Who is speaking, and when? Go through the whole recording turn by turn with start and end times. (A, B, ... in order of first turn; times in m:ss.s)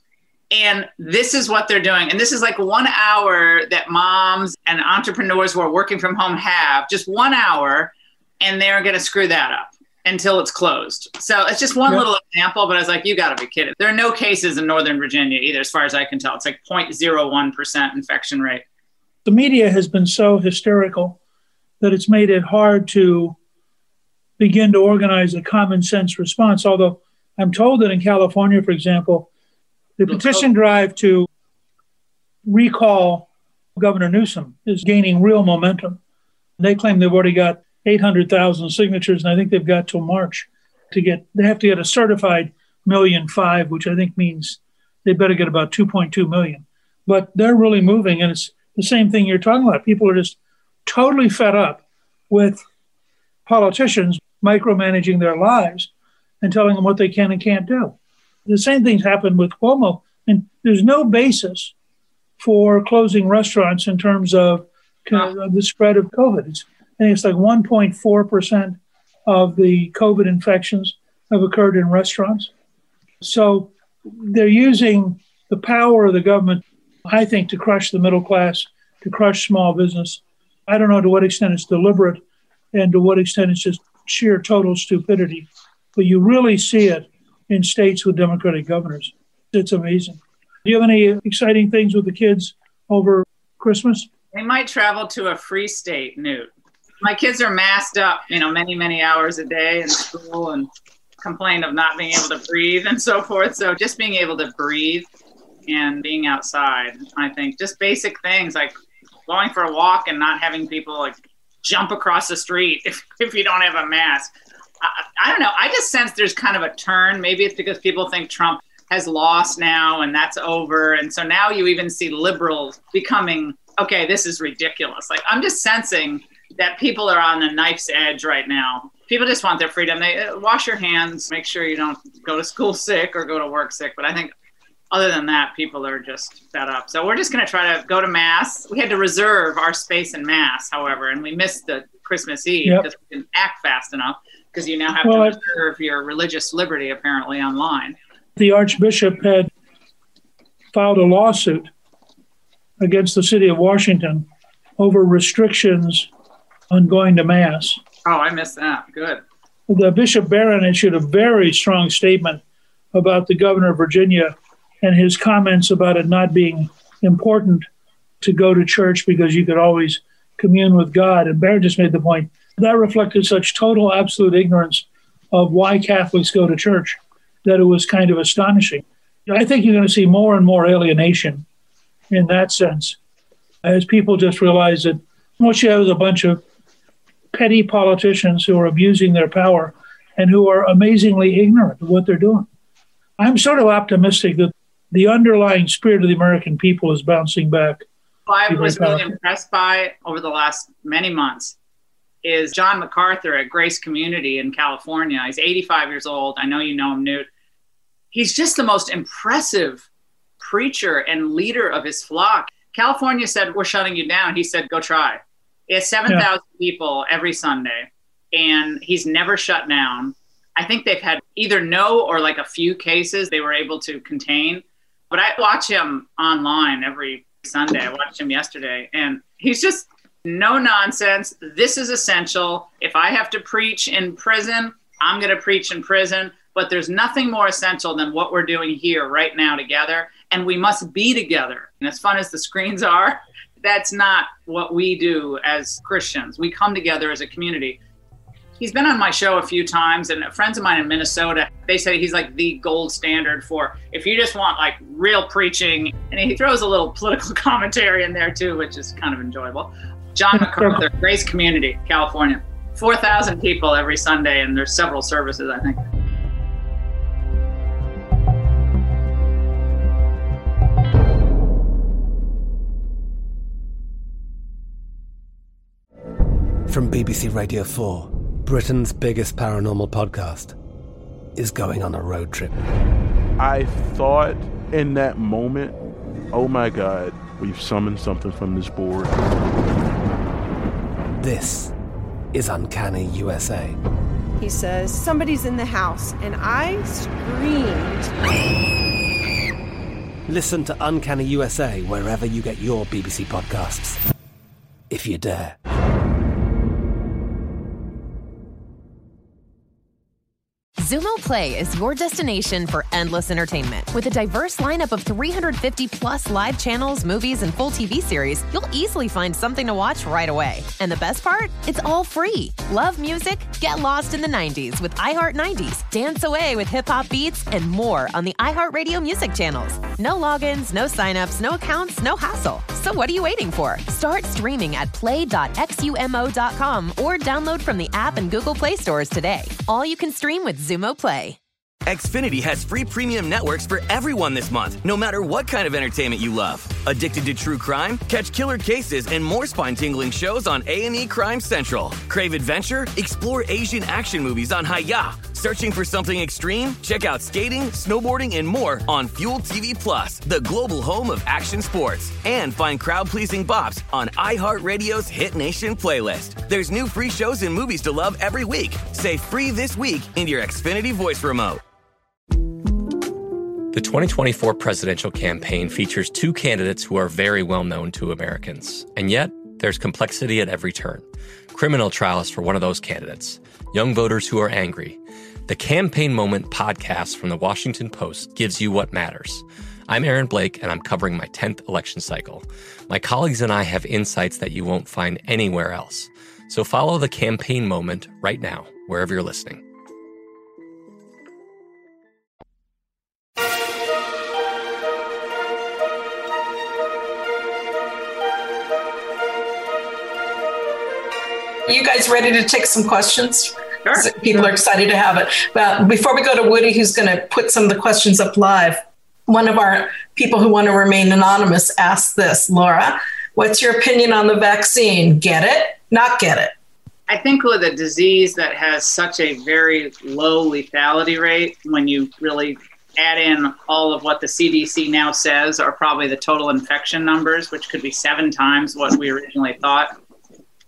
0:00.5-0:18.6 A
0:19.2-0:21.2 B
0:21.8-0:23.4 B
0:24.4-0:29.3 B
0:30.0-0:31.3 B
0:30.1-0:30.4 A
0:32.4-0:36.0 B
0:36.6-0:52.6 B
0:53.4-0:55.9 B
0:56.4-1:01.7 B
1:02.4-1:12.5 B
1:13.2-1:22.2 B
1:22.7-1:34.1 B
1:34.3-1:36.5 A
1:37.0-1:40.7 A
1:41.2-1:45.1 A
1:45.7-1:48.7 A
1:49.3-1:54.3 A
1:54.8-2:14.3 A
2:14.9-2:28.0 A
2:25.0-2:25.4 B
2:28.4-2:29.5 B
2:30.7-2:31.7 B
2:32.8-2:34.2 B
2:34.8-2:36.1 B
2:36.7-2:37.8 B
2:38.0-2:39.2 A
2:39.7-2:42.4 B
2:42.9-2:47.6 B
2:48.2-3:01.4 B
3:02.1-3:03.0 B
3:03.6-3:06.4 B
3:07.3-3:12.5 B
3:13.2-3:17.8 B
3:18.3-3:21.5 A
3:18.5-3:19.1 B
3:22.2-3:27.3 A
3:28.1-3:29.8 A
3:30.4-4:07.8 A
4:08.6-4:25.8 A
4:20.3-4:20.8 B
4:36.7-4:40.5 C
4:41.4-4:42.6 C
4:43.4-4:45.8 D
4:46.3-4:49.2 D
4:51.2-4:51.7 C
4:52.3-4:53.8 C
4:54.4-4:58.1 E
5:00.3-5:04.0 C
5:04.9-5:05.6 C
5:10.8-5:41.4 F
5:41.8-6:11.6 G
6:13.7-6:39.6 H
6:51.7-7:06.5 I
6:53.8-6:54.5 A
7:07.1-7:19.9 A